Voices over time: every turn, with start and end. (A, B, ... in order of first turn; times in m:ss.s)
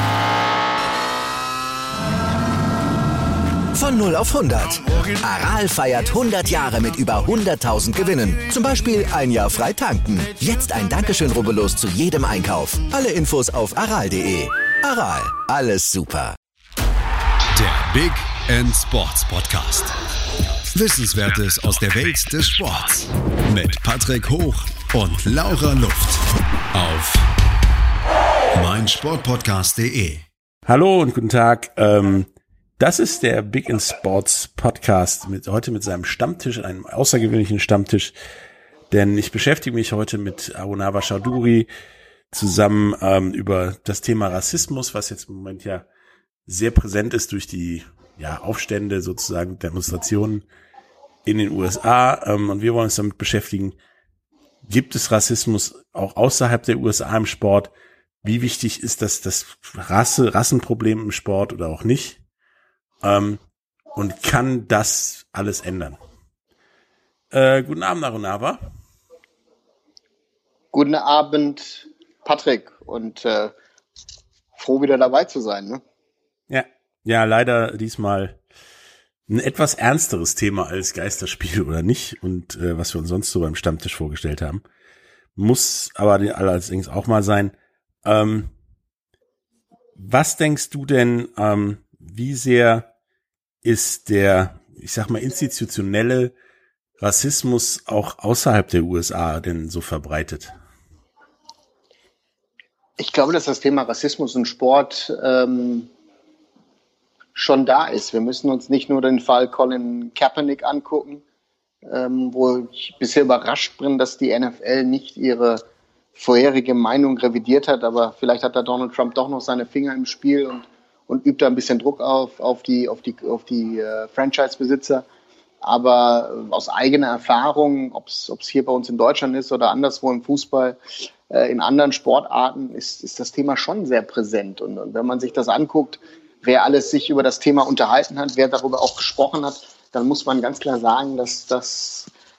0:03.7-0:16.4 A
0:17.5-0:20.0 B
0:20.7-0:26.2 B
0:26.7-0:27.3 B
0:28.5-0:30.3 B
0:30.7-0:38.1 C
0:38.9-0:41.7 C
0:42.3-0:45.9 C
0:46.5-0:50.5 C
0:51.2-0:53.8 C
0:54.7-0:57.7 C
0:58.2-1:02.2 C
1:03.0-1:03.4 C
1:04.0-1:06.0 C
1:07.3-1:08.6 C
1:10.7-1:13.5 D
1:14.6-1:15.8 D
1:16.5-1:18.4 C
1:19.3-1:24.6 C
1:25.4-1:28.5 C
1:30.0-1:32.9 C
1:33.6-1:36.3 C
1:37.0-1:40.5 C
1:43.0-1:45.9 D
1:47.4-1:51.2 D
1:51.8-1:55.6 D
1:56.2-2:05.0 D
2:05.6-2:10.8 D
2:11.3-2:22.1 D